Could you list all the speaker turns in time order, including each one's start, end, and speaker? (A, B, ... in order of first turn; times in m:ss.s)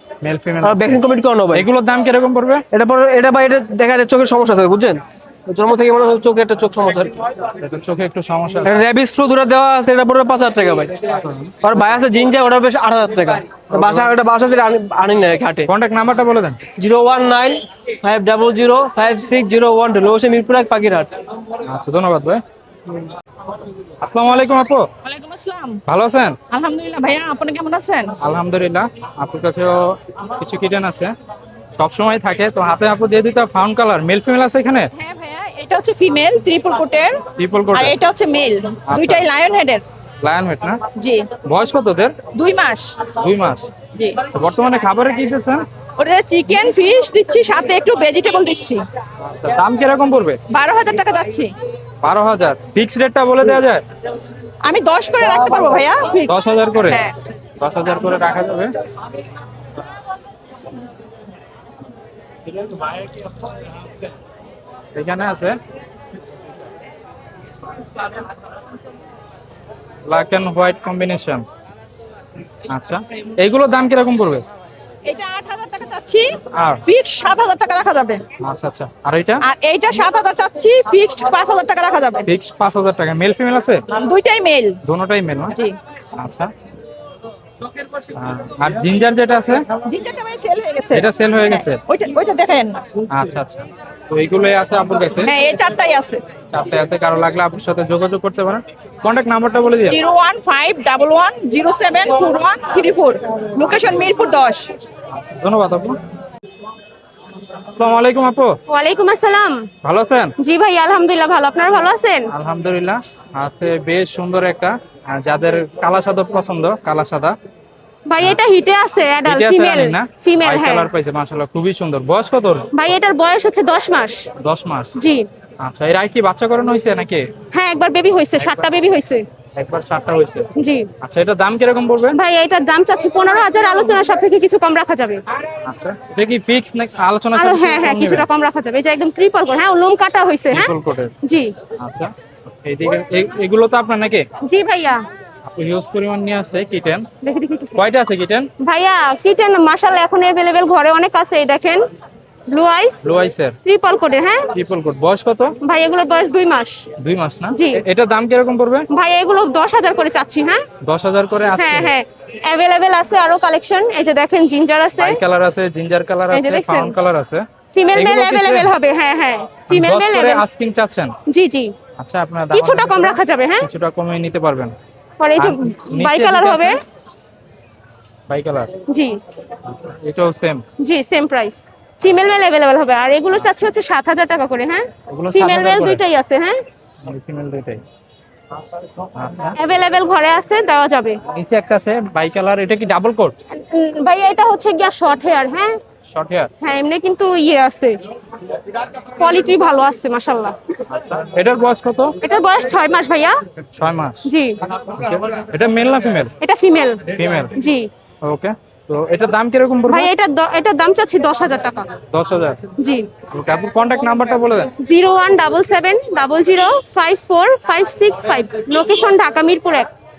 0:00.2-0:02.6 A
0:00.6-0:01.6 B
0:02.7-0:07.3 B
0:07.6-0:08.8 A
0:08.6-0:10.9 B
0:11.1-0:11.6 A
0:11.6-0:15.7 B
0:13.7-0:14.1 A
0:15.7-0:16.6 A
0:16.8-0:21.1 B
0:21.6-0:22.4 A
0:24.0-0:24.9 A
0:25.0-0:25.8 C
0:25.8-0:26.4 A
0:26.5-0:28.1 C
0:28.2-0:31.1 A
0:31.8-0:34.9 A
0:35.0-0:37.2 C
0:37.4-0:37.9 A
0:37.7-0:39.8 C
0:38.9-0:39.2 A
0:40.2-0:40.8 A
0:41.0-0:41.3 C
0:41.4-0:42.2 A
0:42.3-0:43.0 C
0:43.2-0:43.6 A
0:44.3-0:45.6 A
0:46.0-0:48.8 C
0:49.2-0:50.4 A
0:50.5-0:51.5 C
0:52.0-0:53.8 A
0:54.6-0:56.3 C
0:56.3-0:57.0 A
0:56.9-0:57.1 C
0:57.6-0:58.7 A
1:04.9-1:05.6 A
1:10.0-1:11.4 A
1:12.7-1:14.4 A
1:15.1-1:16.2 C
1:16.8-1:18.2 C
1:18.4-1:19.4 A
1:19.4-1:22.2 C
1:22.2-1:23.8 A
1:23.9-1:24.8 C
1:24.8-1:25.5 A
1:26.2-1:26.5 A
1:28.1-1:29.6 A
1:29.8-1:32.8 C
1:30.9-1:31.8 A
1:33.1-1:35.3 A
1:35.2-1:36.2 C
1:36.5-1:40.0 A
1:39.9-1:44.7 C
1:45.1-1:46.0 A
1:47.7-1:48.6 A
1:48.7-1:49.7 D
1:49.8-1:50.3 A
1:50.4-1:52.3 D
1:52.3-1:57.4 A
1:58.1-2:00.9 D
1:59.2-2:02.7 A
2:02.7-2:04.2 D
2:04.4-2:04.9 A
2:05.0-2:05.3 D
2:05.6-2:07.3 A
2:07.5-2:09.2 D
2:09.6-2:10.5 A
2:10.6-2:10.9 D
2:11.0-2:12.2 A
2:12.2-2:15.2 D
2:15.6-2:18.2 A
2:17.4-2:20.7 D
2:20.5-2:21.1 A
2:21.2-2:21.5 D
2:21.8-2:24.2 A
2:24.4-2:25.0 D
2:25.5-2:27.1 A
2:27.2-2:27.8 D
2:27.8-2:28.5 A
2:28.6-2:31.8 D
2:32.5-2:33.0 D
2:33.0-2:33.6 A
2:33.6-2:34.5 D
2:34.5-2:35.5 A
2:35.6-2:36.8 D
2:37.0-2:38.9 A
2:37.5-2:37.8 D
2:38.9-2:40.6 D
2:40.8-2:41.9 A
2:41.6-2:45.2 D
2:45.0-2:48.7 A
2:46.3-2:46.9 D
2:47.7-2:50.4 D
2:49.7-2:51.1 A
2:51.3-2:51.7 D
2:52.0-2:54.7 A
2:52.5-2:53.7 D
2:55.2-2:56.8 D
2:55.4-2:56.7 A
2:58.3-2:58.7 A
2:58.9-2:59.2 D
2:59.7-3:00.6 A
3:00.8-3:06.6 D
3:05.1-3:06.0 A
3:07.0-3:07.8 A
3:09.1-3:09.6 A
3:09.6-3:11.2 D
3:11.2-3:13.4 A
3:13.5-3:15.8 D
3:16.1-3:16.5 A
3:16.6-3:18.0 D
3:19.2-3:20.6 D
3:20.9-3:22.2 A
3:22.2-3:23.4 D
3:23.8-3:24.2 A
3:24.2-3:24.6 D
3:25.0-3:26.3 A
3:26.4-3:27.0 D
3:27.1-3:27.5 A
3:27.6-3:27.9 D
3:28.2-3:30.1 A
3:29.9-3:31.9 D
3:32.1-3:32.6 A
3:32.8-3:33.1 D
3:33.3-3:34.7 A
3:34.8-3:39.9 D